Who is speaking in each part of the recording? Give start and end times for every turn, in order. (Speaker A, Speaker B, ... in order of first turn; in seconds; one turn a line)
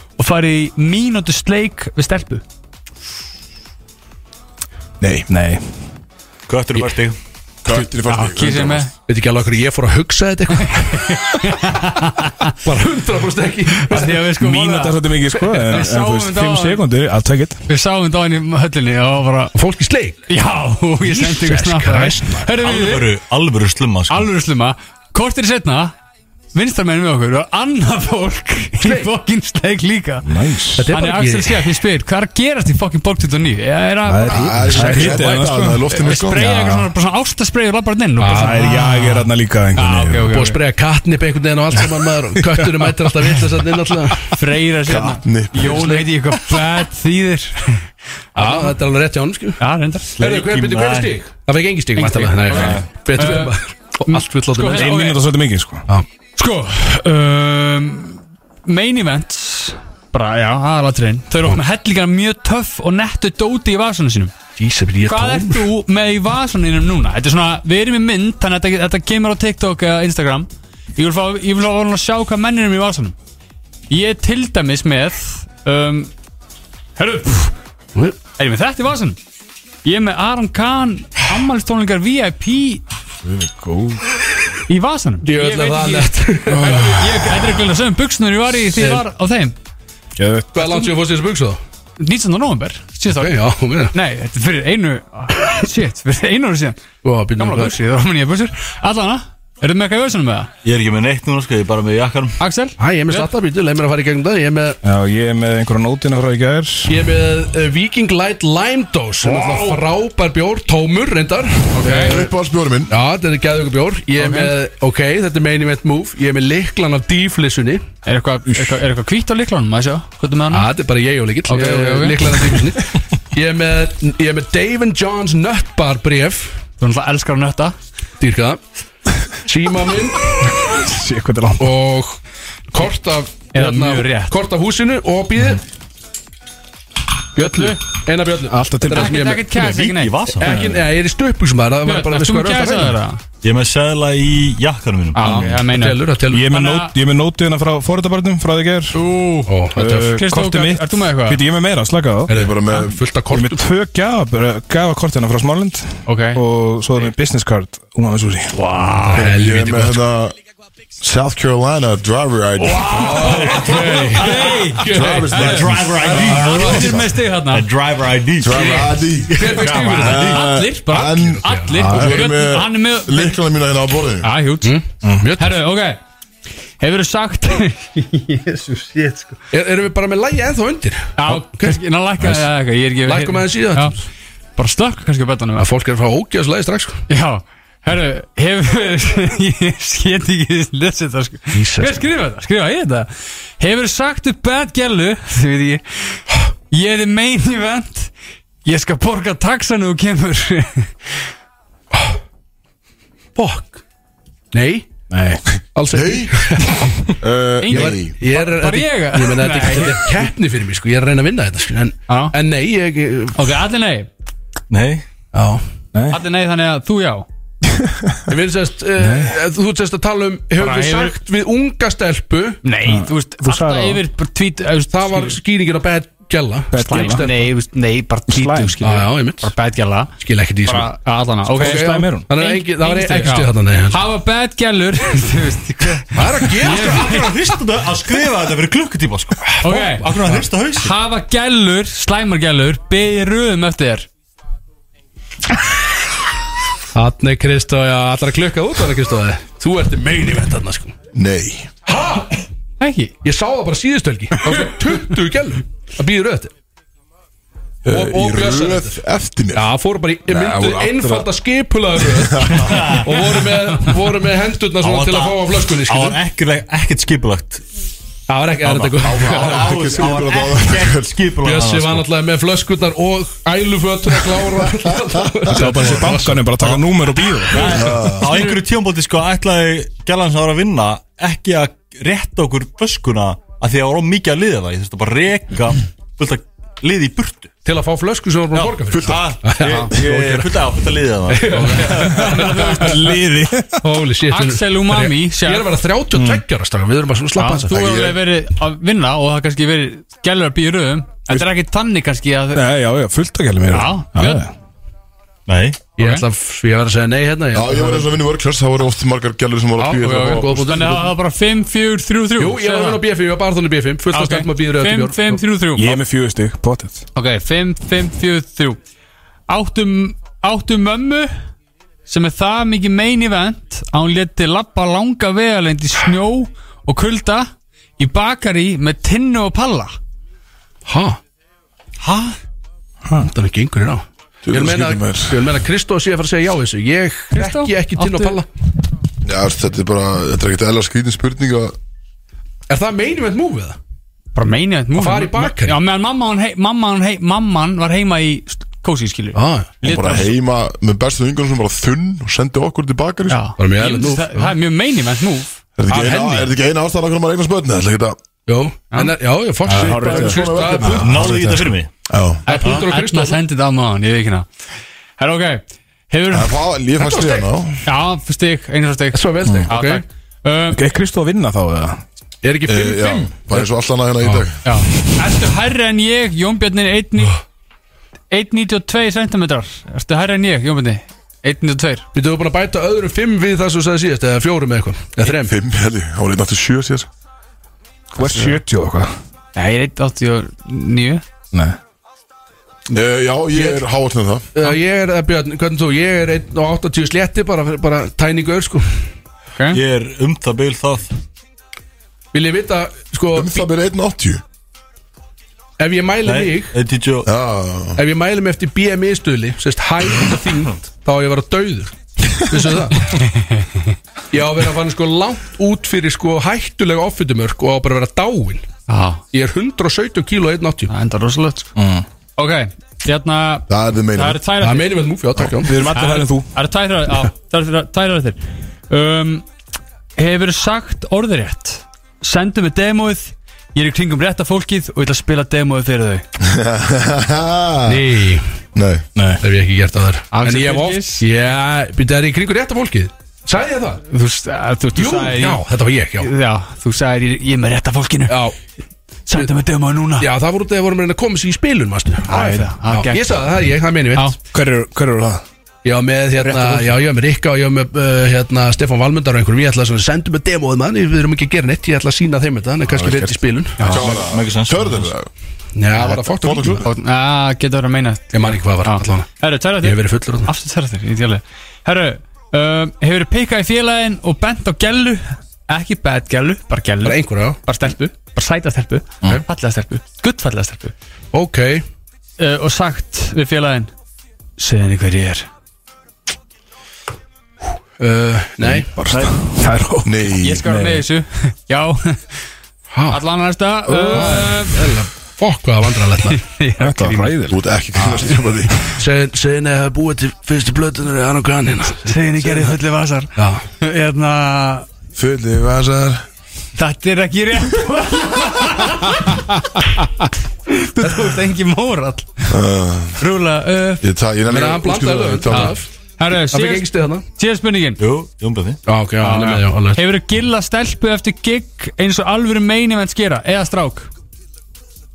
Speaker A: 0.2-2.4
Speaker B: 5.0-5.6
Speaker C: 6.5-7.2
Speaker D: 7.7-8.9
Speaker A: 7.7-8.9
Speaker E: 9.1-11.2
Speaker A: 10.6-12.6
Speaker E: 12.6-14.3
Speaker A: 13.8-16.8
Speaker B: 14.4-17.6
Speaker A: 17.7-19.5
Speaker E: 19.6-20.2
Speaker A: 20.3-23.1
Speaker E: 21.0-22.5
Speaker C: 22.6-24.3
Speaker A: 24.1-25.9
Speaker A: 26.5-30.3
Speaker E: 28.8-29.1
Speaker B: 30.2-30.9
Speaker E: 30.8-31.8
Speaker A: 30.9-40.6
Speaker B: 34.0-36.9
Speaker D: 34.3-36.5
Speaker E: 38.2-38.7
Speaker B: 38.3-40.3
Speaker E: 40.3-44.3
Speaker B: 42.4-42.9
Speaker A: 44.3-48.7
Speaker D: 44.9-45.9
Speaker E: 45.6-46.0
Speaker E: 48.4-49.6
Speaker A: 49.6-50.2
Speaker C: 50.2-51.1
Speaker E: 50.2-55.0
Speaker A: 52.0-53.5
Speaker B: 52.5-52.8
Speaker A: 54.1-55.2
Speaker B: 54.7-55.9
Speaker A: 56.4-64.3
Speaker E: 64.6-65.6
Speaker A: 65.0-73.2
Speaker A: 73.9-76.1
Speaker A: 77.0-77.5
Speaker A: 78.4-79.2
Speaker A: 79.8-82.8
Speaker B: 83.2-84.0
Speaker A: 84.7-89.5
Speaker E: 85.2-87.3
Speaker E: 88.8-89.0
Speaker B: 90.2-90.6
Speaker E: 90.5-91.6
Speaker A: 92.0-93.4
Speaker E: 93.2-93.9
Speaker A: 93.9-96.8
Speaker E: 97.0-97.8
Speaker A: 97.4-100.5
Speaker C: 100.6-102.4
Speaker A: 102.4-103.3
Speaker E: 102.8-104.8
Speaker B: 104.8-107.0
Speaker E: 106.9-112.3
Speaker A: 109.2-109.8
Speaker A: 111.7-112.2
Speaker D: 111.8-112.9
Speaker E: 112.9-117.8
Speaker A: 114.2-114.5
Speaker A: 118.0-120.7
Speaker E: 120.5-126.6
Speaker A: 121.5-122.3
Speaker A: 126.8-127.8
Speaker E: 128.2-128.6
Speaker E: 129.4-130.4
Speaker B: 130.4-131.8
Speaker E: 131.6-132.2
Speaker E: 132.7-135.6
Speaker A: 133.5-134.3
Speaker E: 137.4-139.4
Speaker A: 137.4-137.8
Speaker B: 138.5-139.2
Speaker A: 138.9-140.2
Speaker C: 139.5-140.5
Speaker E: 140.4-143.0
Speaker B: 140.4-140.8
Speaker A: 141.8-143.2
Speaker C: 143.4-145.5
Speaker A: 145.2-146.9
Speaker E: 145.2-146.5
Speaker B: 146.3-149.0
Speaker A: 148.9-149.5
Speaker E: 149.5-150.2
Speaker B: 149.8-152.3
Speaker A: 150.2-151.4
Speaker E: 152.3-153.6
Speaker D: 152.3-153.0
Speaker B: 153.3-158.6
Speaker A: 156.1-156.4
Speaker A: 158.5-159.3
Speaker D: 159.1-160.3
Speaker E: 159.1-160.0
Speaker D: 161.0-164.0
Speaker E: 162.6-165.6
Speaker A: 162.8-167.7
Speaker C: 163.2-164.4
Speaker D: 164.8-167.1
Speaker C: 165.4-170.4
Speaker E: 166.1-166.9
Speaker D: 168.4-174.3
Speaker A: 168.5-169.0
Speaker E: 169.4-170.4
Speaker A: 169.6-173.4
Speaker E: 171.2-172.2
Speaker A: 174.2-174.8
Speaker E: 174.6-175.5
Speaker A: 175.4-176.0
Speaker A: 176.8-179.4
Speaker E: 179.5-182.3
Speaker A: 181.2-183.9
Speaker E: 183.1-183.9
Speaker A: 184.6-185.7
Speaker E: 185.6-187.0
Speaker A: 187.1-198.1
Speaker E: 191.5-192.0
Speaker A: 198.7-200.9
Speaker E: 203.4-203.8
Speaker E: 204.5-204.9
Speaker B: 205.1-205.4
Speaker E: 205.8-206.9
Speaker D: 205.9-208.1
Speaker A: 207.6-210.3
Speaker E: 207.7-213.4
Speaker A: 212.1-212.3
Speaker A: 213.4-214.1
Speaker C: 214.7-215.0
Speaker E: 215.3-215.6
Speaker B: 215.9-216.2
Speaker A: 216.1-217.3
Speaker B: 217.7-218.2
Speaker E: 218.3-222.6
Speaker B: 219.0-219.4
Speaker A: 220.6-221.1
Speaker A: 222.6-225.3
Speaker B: 222.8-224.0
Speaker E: 224.9-227.5
Speaker B: 226.7-227.3
Speaker A: 226.9-230.1
Speaker B: 228.3-228.8
Speaker E: 228.8-229.5
Speaker E: 230.2-230.9
Speaker A: 230.7-237.4
Speaker B: 231.5-232.3
Speaker E: 231.6-234.0
Speaker E: 236.1-237.1
Speaker C: 236.6-240.9
Speaker E: 239.5-240.5
Speaker A: 239.6-240.1
Speaker A: 240.8-244.1
Speaker E: 246.9-250.9
Speaker D: 251.2-251.7
Speaker E: 251.9-252.4
Speaker A: 252.8-253.1
Speaker E: 253.2-256.5
Speaker E: 257.9-259.0
Speaker D: 257.9-259.7
Speaker E: 259.6-266.2
Speaker D: 260.3-261.3
Speaker D: 262.0-263.3
Speaker C: 262.7-263.1
Speaker C: 264.8-267.6
Speaker E: 268.3-270.0
Speaker C: 268.7-272.1
Speaker D: 268.9-271.2
Speaker E: 271.4-276.4
Speaker B: 275.5-277.9
Speaker D: 275.5-276.1
Speaker C: 276.6-276.8
Speaker C: 277.4-287.5
Speaker E: 277.6-278.6
Speaker D: 277.7-278.4
Speaker E: 287.6-290.7
Speaker C: 288.5-292.6
Speaker D: 288.9-289.3
Speaker A: 289.6-289.9
Speaker E: 291.3-293.0
Speaker A: 291.5-293.0
Speaker B: 292.3-293.8
Speaker E: 293.8-297.8
Speaker A: 294.3-295.7
Speaker B: 296.1-296.4
Speaker A: 297.4-302.7
Speaker D: 297.7-298.2
Speaker B: 302.5-304.5
Speaker A: 303.7-304.4
Speaker C: 305.5-305.8
Speaker E: 306.0-308.1
Speaker A: 306.0-306.2
Speaker D: 307.5-310.9
Speaker E: 309.8-311.1
Speaker A: 309.9-313.0
Speaker E: 312.4-315.4
Speaker A: 314.1-316.0
Speaker B: 315.8-317.0
Speaker A: 317.2-318.8
Speaker A: 319.5-321.3
Speaker A: 322.1-329.9
Speaker E: 330.9-331.2
Speaker C: 332.0-332.4
Speaker E: 333.2-338.5
Speaker D: 334.5-335.5
Speaker A: 337.3-338.4
Speaker D: 339.2-341.8
Speaker E: 342.7-343.8
Speaker A: 344.4-350.3
Speaker E: 345.0-345.8
Speaker E: 349.3-349.7
Speaker D: 349.8-353.5
Speaker A: 353.3-355.6
Speaker E: 353.6-354.5
Speaker D: 355.8-358.2
Speaker E: 355.9-356.5
Speaker E: 358.5-361.1
Speaker B: 359.7-360.4
Speaker D: 359.7-362.4
Speaker C: 361.0-361.9
Speaker A: 362.5-364.5
Speaker E: 362.5-363.4
Speaker A: 365.2-366.6
Speaker D: 366.3-367.8
Speaker E: 367.0-367.5
Speaker A: 367.9-370.8
Speaker E: 369.1-370.0
Speaker B: 370.7-372.0
Speaker E: 372.4-373.7
Speaker D: 372.7-374.6
Speaker A: 374.6-377.4
Speaker A: 378.3-382.1
Speaker E: 382.1-385.5
Speaker D: 385.2-387.1
Speaker B: 388.1-389.1
Speaker A: 389.6-391.2
Speaker D: 392.9-394.5
Speaker E: 393.5-393.8
Speaker E: 394.6-399.0
Speaker C: 399.7-401.1
Speaker E: 402.3-403.7
Speaker D: 403.3-404.4
Speaker E: 405.8-406.8
Speaker C: 406.2-407.3
Speaker D: 407.2-408.0
Speaker E: 408.0-411.9
Speaker E: 412.5-413.0
Speaker A: 413.2-413.7
Speaker E: 414.3-418.6
Speaker A: 418.9-419.2
Speaker E: 419.3-420.9
Speaker A: 420.9-421.7
Speaker B: 421.8-422.1
Speaker A: 422.4-425.0
Speaker D: 423.7-424.4
Speaker E: 424.6-425.8
Speaker B: 425.6-426.5
Speaker A: 425.9-428.4
Speaker A: 428.9-429.5
Speaker A: 430.2-436.2
Speaker D: 436.4-438.0
Speaker E: 437.9-438.5
Speaker D: 438.8-439.1
Speaker B: 439.2-439.4
Speaker E: 439.4-444.0
Speaker A: 440.3-441.2
Speaker A: 444.1-445.6
Speaker E: 444.9-446.3
Speaker A: 446.2-448.4
Speaker E: 448.3-448.6
Speaker A: 449.3-450.3
Speaker E: 450.2-454.3
Speaker A: 452.3-453.4
Speaker B: 454.5-455.4
Speaker E: 455.8-463.9
Speaker B: 456.4-456.9
Speaker B: 462.9-463.3
Speaker D: 463.9-465.3
Speaker C: 463.9-465.1
Speaker E: 465.8-466.9
Speaker D: 465.9-466.9
Speaker A: 466.8-480.9
Speaker E: 468.3-469.3
Speaker E: 469.8-470.5
Speaker E: 477.0-477.6
Speaker E: 481.3-481.8
Speaker A: 482.4-483.9
Speaker A: 484.6-485.5
Speaker E: 488.0-488.9
Speaker B: 489.0-491.0
Speaker D: 490.1-490.6
Speaker A: 490.4-492.4
Speaker E: 492.9-493.2
Speaker A: 493.1-494.9
Speaker E: 493.9-496.4
Speaker B: 493.9-494.4
Speaker A: 496.3-497.4
Speaker B: 496.8-497.6
Speaker D: 497.5-498.9
Speaker E: 498.1-502.7
Speaker A: 501.9-504.9
Speaker E: 503.4-503.6
Speaker D: 505.2-506.3
Speaker A: 506.8-510.0
Speaker A: 510.7-512.5
Speaker E: 511.0-511.4
Speaker D: 512.5-513.2
Speaker A: 513.2-514.0
Speaker D: 514.0-515.8
Speaker E: 514.5-517.3
Speaker A: 515.5-518.0
Speaker C: 518.0-518.8
Speaker E: 518.9-520.0
Speaker A: 519.2-524.1